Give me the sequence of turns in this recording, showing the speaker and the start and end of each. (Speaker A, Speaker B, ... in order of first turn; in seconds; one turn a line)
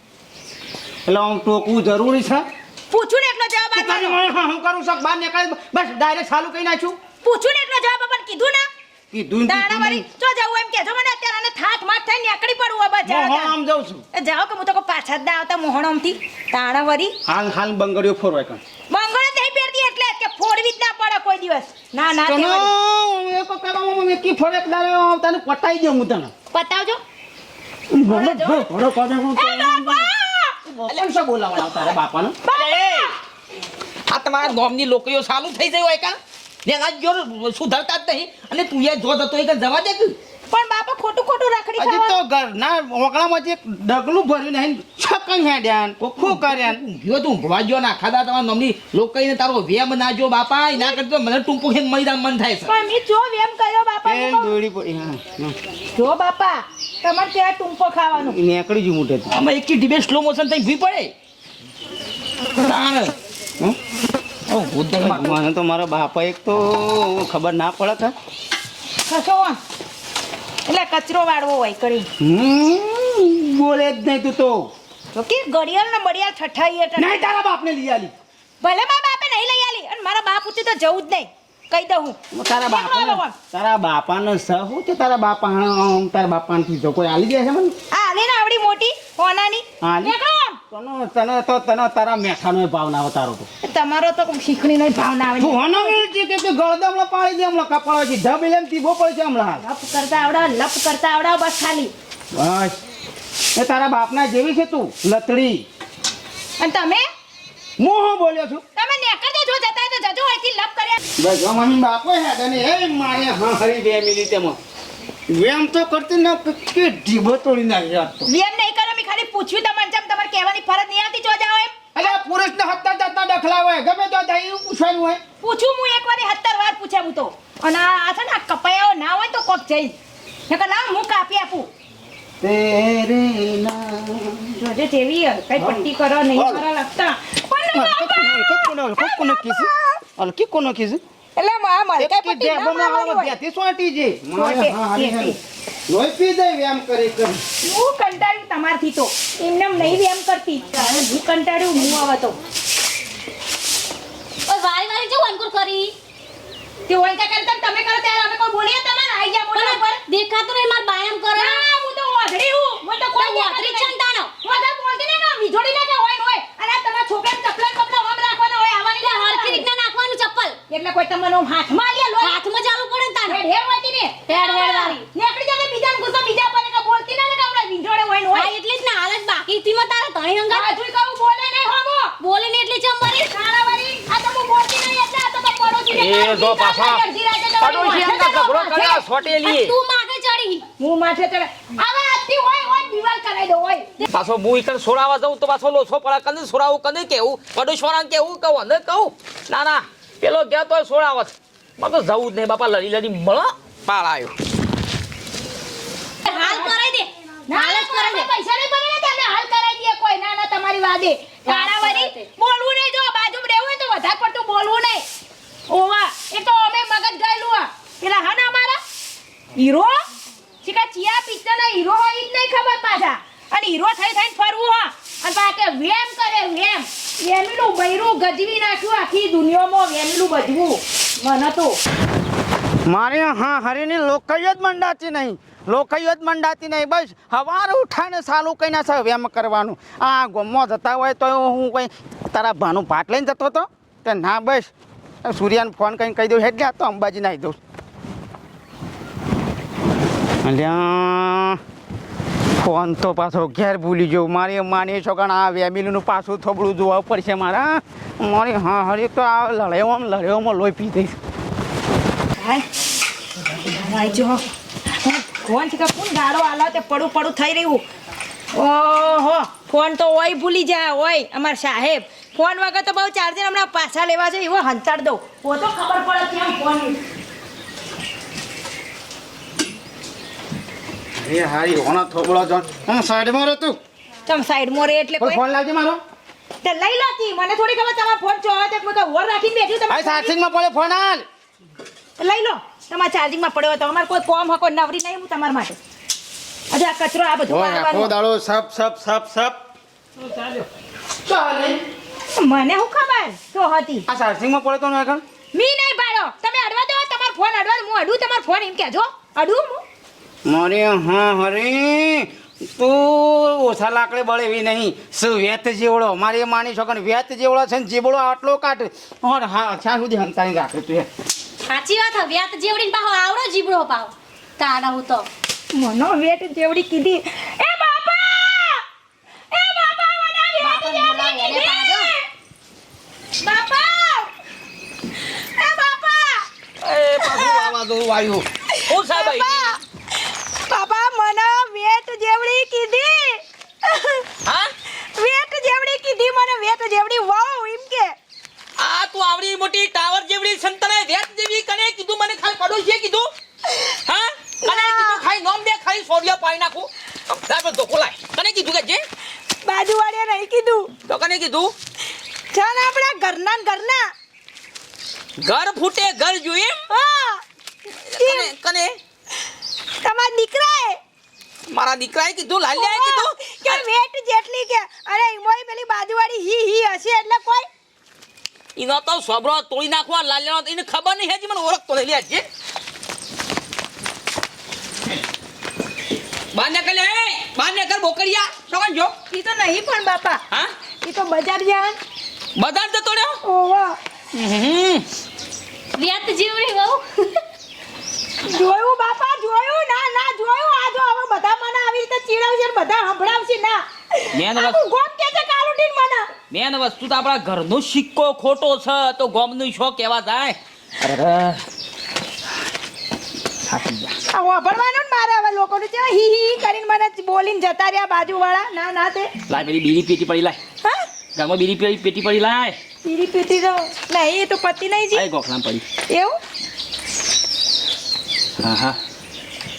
Speaker A: 1.1-2.5
Speaker B: 2.9-4.2
Speaker A: 3.7-7.0
Speaker B: 7.2-8.7
Speaker A: 9.1-10.0
Speaker B: 9.4-13.5
Speaker A: 13.0-14.0
Speaker B: 14.1-17.1
Speaker A: 17.2-18.6
Speaker B: 18.9-22.7
Speaker A: 22.3-26.3
Speaker B: 26.5-27.0
Speaker A: 27.9-30.1
Speaker B: 28.1-28.7
Speaker B: 29.3-30.5
Speaker A: 30.6-32.4
Speaker B: 32.4-33.1
Speaker C: 32.5-33.1
Speaker C: 34.1-40.2
Speaker B: 40.5-42.2
Speaker A: 41.8-46.8
Speaker C: 46.0-52.7
Speaker B: 52.6-54.5
Speaker A: 54.0-55.5
Speaker B: 55.9-58.4
Speaker A: 58.1-59.3
Speaker C: 59.3-61.1
Speaker C: 62.6-63.1
Speaker C: 64.5-65.4
Speaker A: 65.0-68.1
Speaker B: 69.0-69.6
Speaker B: 70.7-72.1
Speaker A: 72.2-74.7
Speaker B: 75.1-77.3
Speaker A: 77.0-78.1
Speaker B: 78.6-83.3
Speaker A: 82.3-87.7
Speaker B: 87.9-90.6
Speaker A: 89.8-90.1
Speaker A: 90.7-93.5
Speaker B: 93.6-96.0
Speaker A: 95.4-99.6
Speaker B: 99.6-101.9
Speaker A: 102.3-102.8
Speaker A: 103.5-105.7
Speaker B: 106.6-107.1
Speaker A: 107.8-108.6
Speaker B: 108.7-111.0
Speaker A: 111.2-114.6
Speaker A: 115.3-118.3
Speaker B: 118.3-122.2
Speaker A: 121.9-125.2
Speaker B: 125.4-129.9
Speaker B: 130.5-131.7
Speaker A: 132.4-134.6
Speaker B: 134.6-140.0
Speaker A: 135.6-136.6
Speaker A: 137.7-141.0
Speaker B: 141.3-143.3
Speaker A: 142.0-145.4
Speaker B: 144.3-145.4
Speaker A: 145.9-147.4
Speaker B: 147.6-152.4
Speaker D: 154.5-155.9
Speaker B: 156.9-160.0
Speaker D: 159.5-161.7
Speaker B: 161.3-169.6
Speaker D: 163.1-164.3
Speaker D: 169.0-170.6
Speaker B: 170.7-172.4
Speaker D: 172.2-173.4
Speaker B: 173.2-178.5
Speaker D: 174.3-175.0
Speaker D: 178.3-180.7
Speaker B: 180.5-182.1
Speaker D: 182.2-183.3
Speaker B: 183.3-189.0
Speaker C: 185.9-187.0
Speaker C: 187.6-189.8
Speaker D: 189.4-190.7
Speaker B: 190.8-193.9
Speaker C: 194.0-204.3
Speaker D: 206.2-208.3
Speaker B: 206.4-206.8
Speaker B: 207.5-215.0
Speaker D: 211.4-212.3
Speaker B: 215.7-218.8
Speaker B: 219.5-220.0
Speaker B: 220.6-231.8
Speaker A: 232.8-244.7
Speaker A: 245.2-247.6
Speaker A: 250.4-251.6
Speaker A: 252.6-261.2
Speaker B: 262.4-262.6
Speaker B: 263.6-264.4
Speaker B: 265.0-267.8
Speaker B: 268.5-277.0
Speaker A: 281.2-283.8
Speaker B: 284.2-285.4
Speaker A: 285.2-286.0
Speaker B: 286.6-290.3
Speaker A: 289.9-291.2
Speaker B: 292.2-295.8
Speaker B: 296.7-298.1
Speaker A: 297.5-299.6
Speaker C: 300.2-300.7
Speaker A: 301.2-301.8
Speaker B: 302.3-304.1
Speaker A: 304.1-305.2
Speaker B: 305.5-309.8
Speaker A: 310.4-321.1
Speaker D: 321.6-325.3
Speaker B: 325.7-328.8
Speaker B: 329.5-332.3
Speaker D: 330.6-332.1
Speaker B: 333.4-334.3
Speaker B: 335.2-336.5
Speaker C: 336.8-339.6
Speaker B: 337.2-337.5
Speaker B: 338.7-339.8
Speaker B: 340.5-344.3
Speaker C: 344.4-344.7
Speaker B: 344.9-348.1
Speaker C: 348.8-353.3
Speaker C: 353.9-359.0
Speaker B: 354.6-355.2
Speaker B: 359.6-360.9
Speaker C: 361.0-361.7
Speaker B: 362.5-364.1
Speaker C: 365.4-366.8
Speaker B: 366.9-367.4
Speaker C: 368.1-368.9
Speaker B: 368.2-368.5
Speaker B: 370.0-371.0
Speaker C: 371.7-373.8
Speaker B: 372.7-377.7
Speaker C: 378.8-382.4
Speaker C: 386.5-389.1
Speaker B: 389.3-390.4
Speaker B: 391.0-392.0
Speaker C: 392.6-393.4
Speaker B: 393.4-394.0
Speaker C: 394.3-395.1
Speaker D: 395.9-397.4
Speaker B: 398.4-406.3
Speaker C: 404.3-404.8
Speaker C: 406.5-411.6
Speaker C: 413.7-414.1
Speaker B: 414.3-419.3
Speaker C: 419.5-420.6
Speaker C: 421.4-422.8
Speaker B: 423.0-425.2
Speaker C: 425.1-425.8
Speaker B: 426.1-426.4
Speaker C: 428.6-429.0